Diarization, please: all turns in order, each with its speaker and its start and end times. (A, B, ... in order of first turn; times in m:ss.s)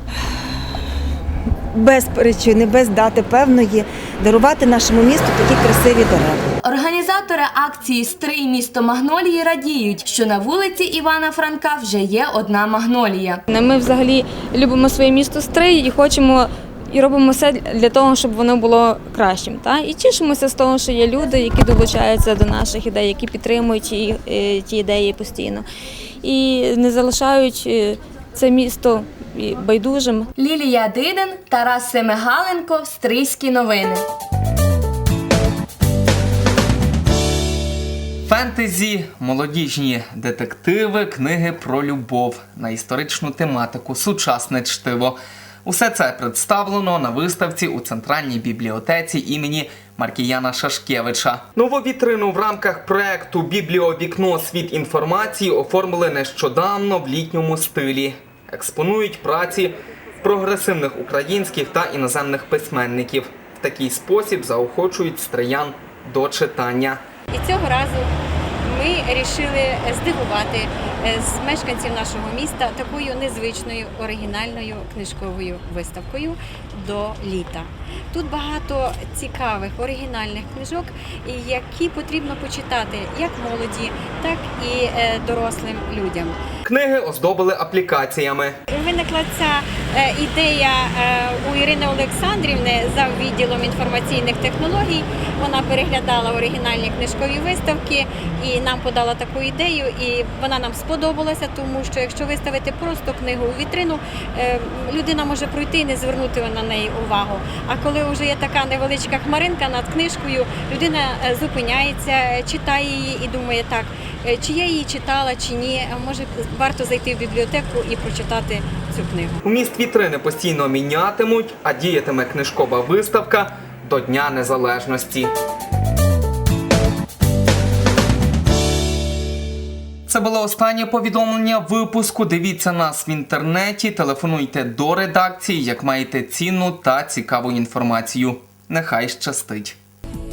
0:01.7-0:06.4 A
0:06.6-0:13.4 B
0:13.5-0:25.7 C
0:26.2-0:30.3 C
0:30.4-0:34.0 B
0:38.3-1:07.0 D
1:07.3-1:08.1 E
1:08.6-1:26.4 E
1:26.7-1:28.6 D
1:28.7-1:59.4 E
1:59.4-2:05.3 D
2:10.1-2:19.8 D